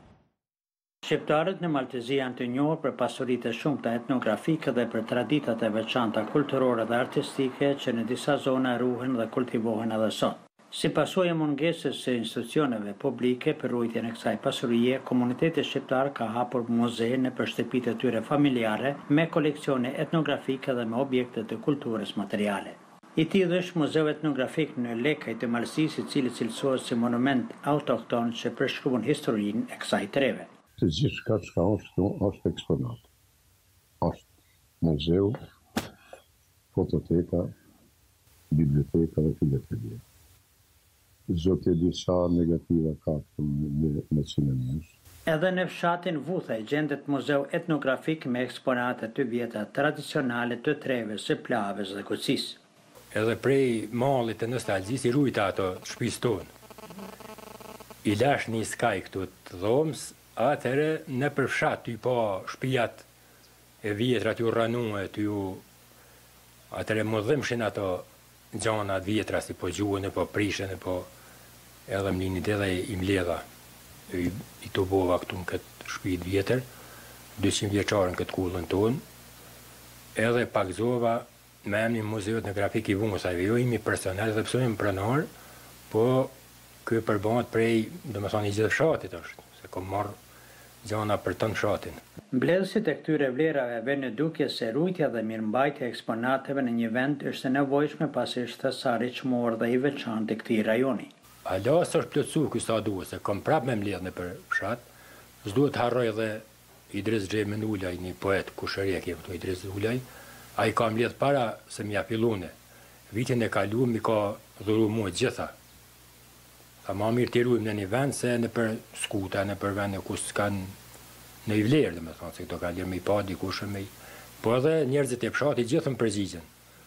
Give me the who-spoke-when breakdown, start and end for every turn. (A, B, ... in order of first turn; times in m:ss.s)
0:01.0-0:30.5 A
0:30.8-0:33.1 B
0:34.0-0:34.3 B
0:34.8-0:35.4 B
0:36.7-0:37.5 B
0:38.5-0:40.0 B
0:41.3-0:44.9 B
0:45.3-0:52.6 A
0:53.1-0:56.5 C
0:58.0-1:03.1 C
1:03.8-1:05.6 C
1:06.7-1:11.1 C
1:11.9-1:13.4 C
1:14.1-1:16.7 C
1:17.4-1:19.0 C
1:20.2-1:25.3 C
1:25.9-1:26.3 C
1:26.8-1:30.2 C
1:30.8-1:32.0 C
1:32.3-1:41.1 A
1:41.4-1:44.8 C
1:45.4-1:50.0 C
1:50.6-1:52.5 C
1:53.1-1:55.5 C
1:56.8-2:00.7 C
2:01.4-2:03.9 C
2:04.4-2:06.5 C